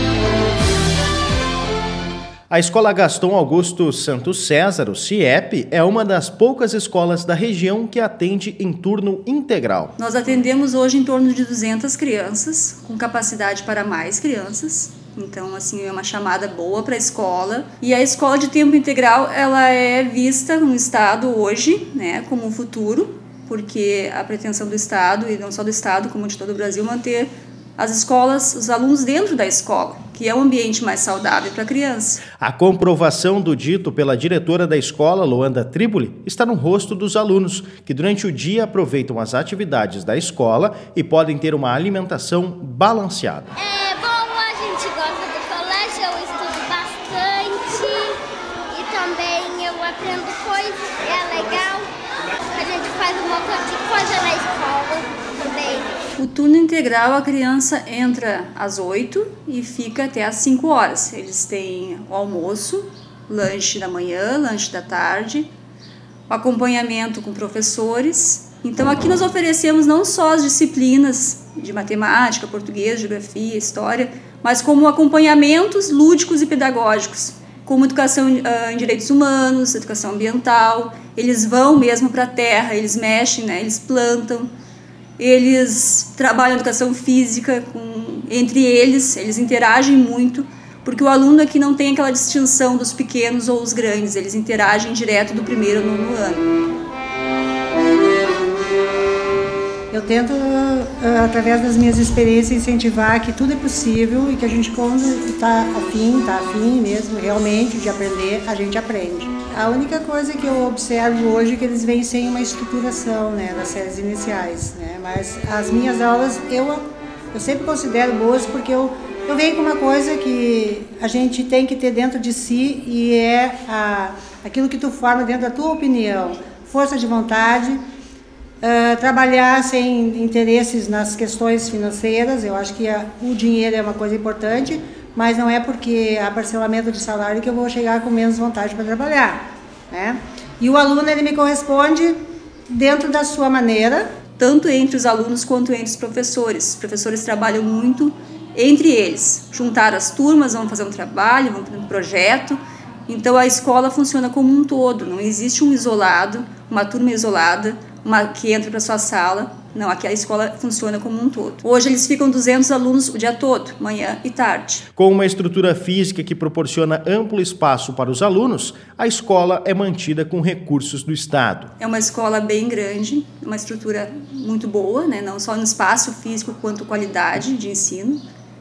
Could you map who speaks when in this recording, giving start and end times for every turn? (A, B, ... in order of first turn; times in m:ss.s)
0:02.5-0:09.9 A
0:10.0-0:32.2 B
0:32.4-0:43.5 A
0:43.6-0:48.2 C
0:48.7-0:51.9 C
0:52.5-0:56.0 C
0:56.2-1:05.5 B
1:06.3-1:24.5 B
1:25.2-1:36.5 B
1:39.9-2:07.8 D
2:08.6-2:22.2 D
2:22.7-2:24.1 D
2:24.4-2:44.8 B
2:45.0-2:51.7 A
2:51.8-2:58.2 B